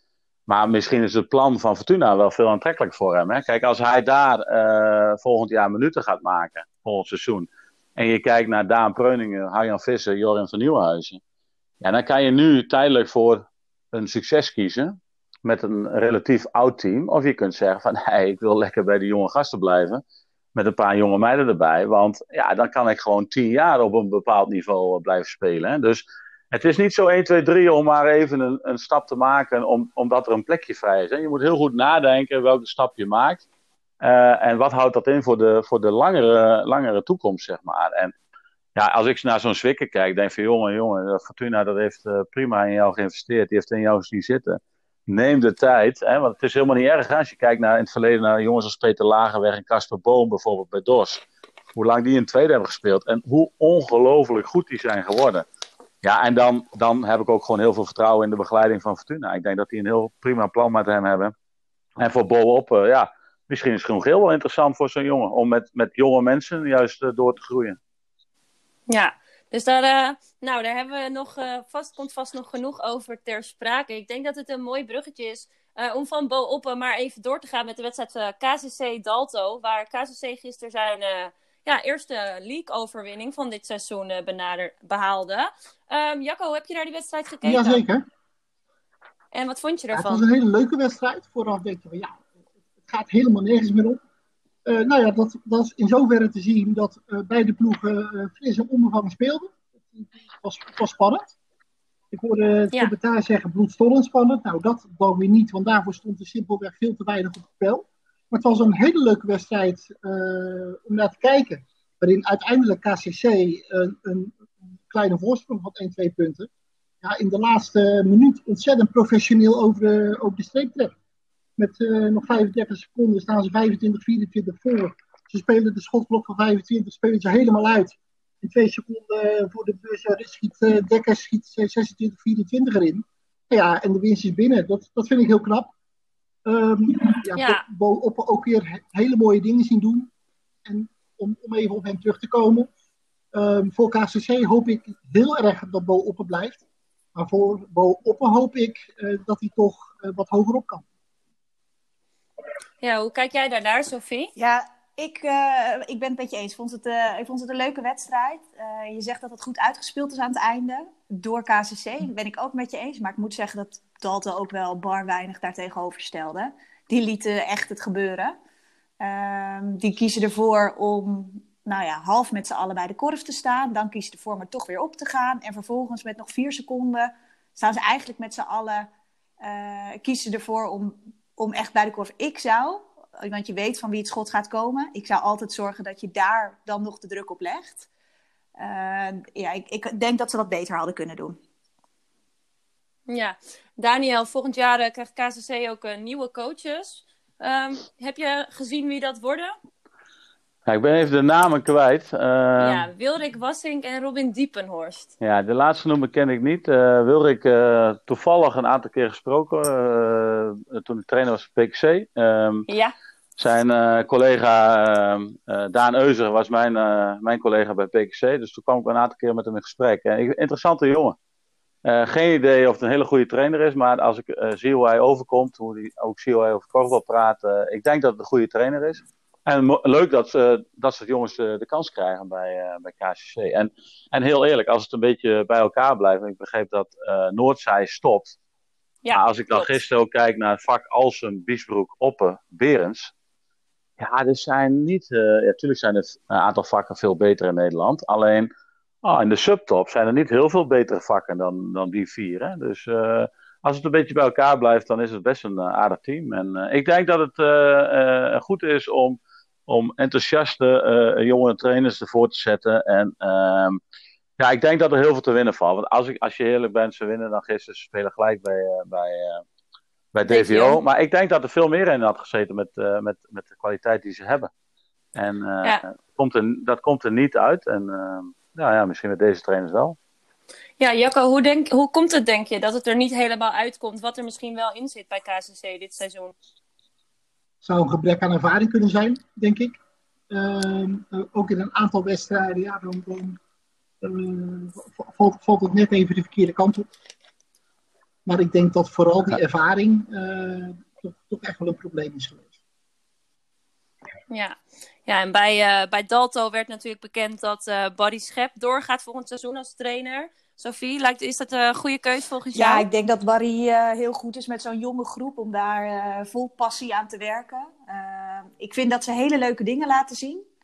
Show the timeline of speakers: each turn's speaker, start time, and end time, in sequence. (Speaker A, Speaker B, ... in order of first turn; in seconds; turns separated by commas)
Speaker A: 0.5-11.2, Speaker A: 11.8-20.0, Speaker A: 20.5-33.4, Speaker A: 34.0-38.1, Speaker A: 38.8-51.2, Speaker A: 51.8-55.4, Speaker A: 56.0-61.3, Speaker A: 62.0-67.8, Speaker B: 68.9-87.8, Speaker C: 87.4-88.0, Speaker B: 89.3-90.2, Speaker C: 89.9-92.2, Speaker C: 92.8-94.0, Speaker C: 94.7-101.3, Speaker C: 102.1-116.5, Speaker C: 117.0-120.9, Speaker C: 121.6-135.7, Speaker C: 136.4-140.1, Speaker B: 137.3-137.6, Speaker C: 140.6-142.7, Speaker C: 143.3-146.6, Speaker C: 147.1-150.8, Speaker B: 152.8-154.3, Speaker D: 154.3-168.3, Speaker D: 169.0-178.9, Speaker D: 179.4-187.9, Speaker D: 188.6-191.4, Speaker B: 193.1-199.5, Speaker A: 200.7-202.9, Speaker B: 202.6-205.1, Speaker A: 205.2-212.7, Speaker B: 212.7-212.9, Speaker A: 213.4-221.2, Speaker A: 221.8-238.3, Speaker B: 239.0-239.7, Speaker A: 239.1-243.1, Speaker A: 244.0-248.5, Speaker A: 249.0-263.8, Speaker A: 264.4-269.4, Speaker A: 270.1-274.5, Speaker B: 270.3-270.8, Speaker A: 275.1-280.0, Speaker B: 280.8-286.3, Speaker C: 287.6-289.8, Speaker C: 290.3-293.4, Speaker C: 294.0-296.9, Speaker C: 298.2-302.5, Speaker B: 304.3-312.9, Speaker D: 312.5-320.4